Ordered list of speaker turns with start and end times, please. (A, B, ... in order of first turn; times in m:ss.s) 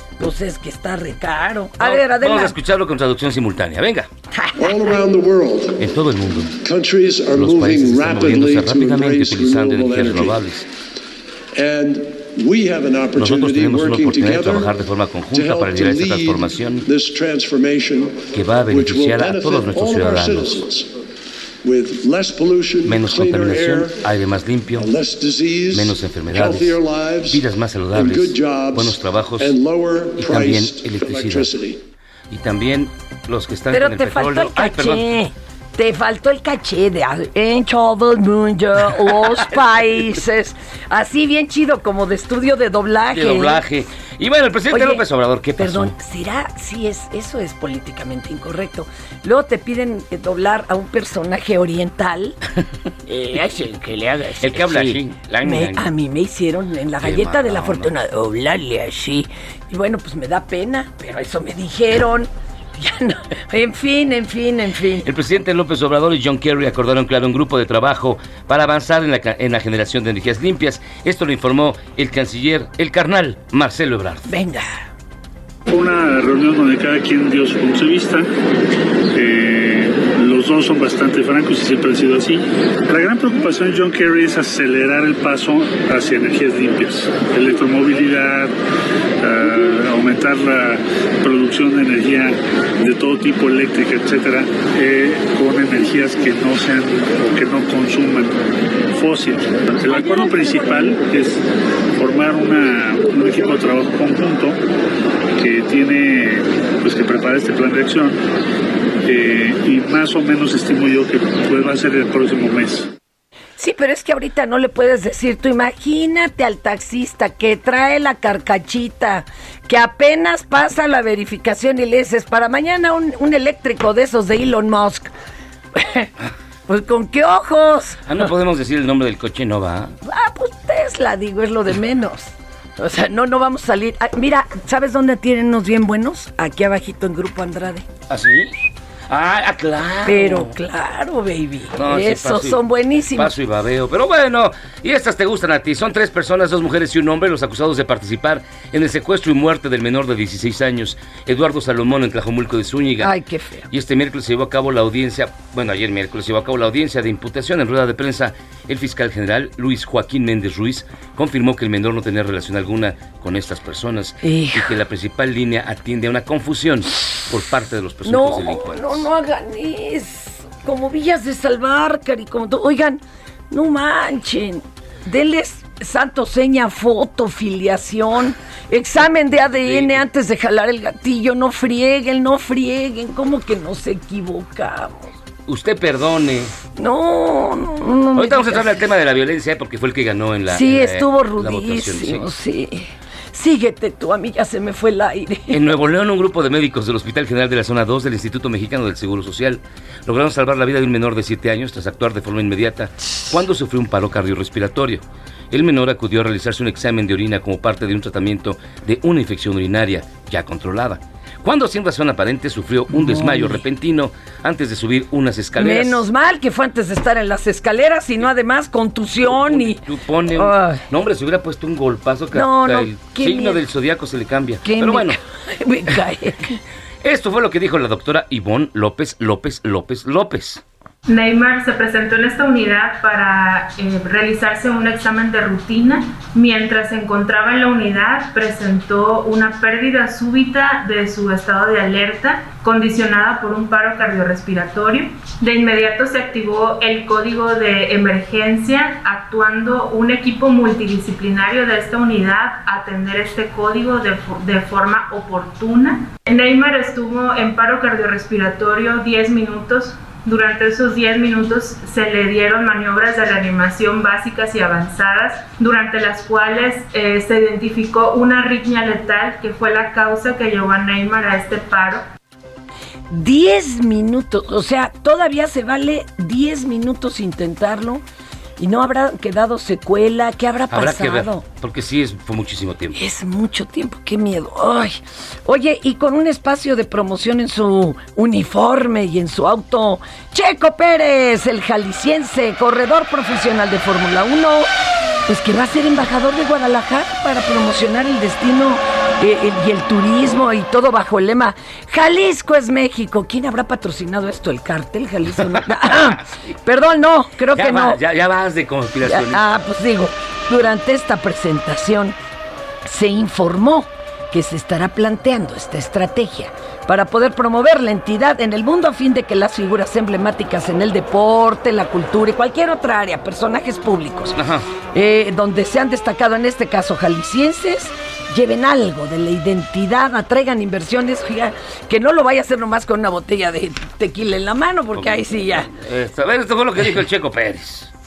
0:00.2-0:02.6 A
0:01.8-0:04.1 B
0:04.6-0:05.9 C
0:05.8-0:06.5 B
0:06.6-0:10.4 C
0:07.3-0:10.7 B
0:11.6-0:14.8 C
0:13.2-0:16.9 B
0:15.3-0:20.9 C
0:18.3-0:20.7 B
0:21.6-0:24.0 C
0:22.9-0:24.9 B
0:24.7-0:31.8 C
0:25.7-0:29.6 B
0:30.2-0:31.6 B
0:32.3-0:35.1 B
0:33.7-0:43.6 A
0:43.1-0:45.9 B
0:44.7-0:45.0 A
0:45.6-0:52.4 A
0:53.1-1:05.1 A
0:54.5-0:55.9 B
0:57.0-0:57.9 B
1:05.0-1:14.3 B
1:14.3-1:14.7 A
1:15.7-1:18.3 D
1:19.1-1:28.5 D
1:29.2-1:38.4 D
1:38.9-1:41.4 D
1:39.9-1:41.1 A
1:42.0-1:44.6 D
1:45.4-1:48.2 D
1:49.0-1:52.9 D
1:53.6-2:05.1 A
2:05.8-2:06.1 A
2:06.7-2:08.2 A
2:08.1-2:09.9 B
2:10.0-2:17.9 A
2:18.1-2:18.5 B
2:19.1-2:20.5 B
2:20.0-2:23.4 A
2:21.8-2:22.6 B
2:23.1-2:33.1 B
2:33.0-2:33.7 A
2:33.7-2:49.0 B
2:44.2-2:44.7 A
2:48.1-3:05.1 A
2:59.6-3:00.0 B
3:05.5-3:06.5 B
3:06.8-3:08.9 A
3:08.2-3:12.3 B
3:10.5-3:15.6 A
3:15.5-3:36.0 B
3:32.9-3:33.6 A
3:35.6-3:39.8 A
3:39.2-3:45.2 B
3:40.4-3:40.8 A
3:42.3-3:43.6 A
3:44.6-3:46.6 A
3:47.0-3:50.6 B
3:51.1-4:32.0 E
4:33.1-4:38.0 A
4:38.6-4:41.4 A
4:40.7-4:43.0 B
4:42.9-4:54.7 A
4:55.3-5:08.0 A
5:07.6-5:09.5 B
5:09.1-5:12.2 A
5:12.9-5:24.4 A
5:24.4-5:24.7 B
5:24.9-5:35.7 A
5:35.0-5:37.9 B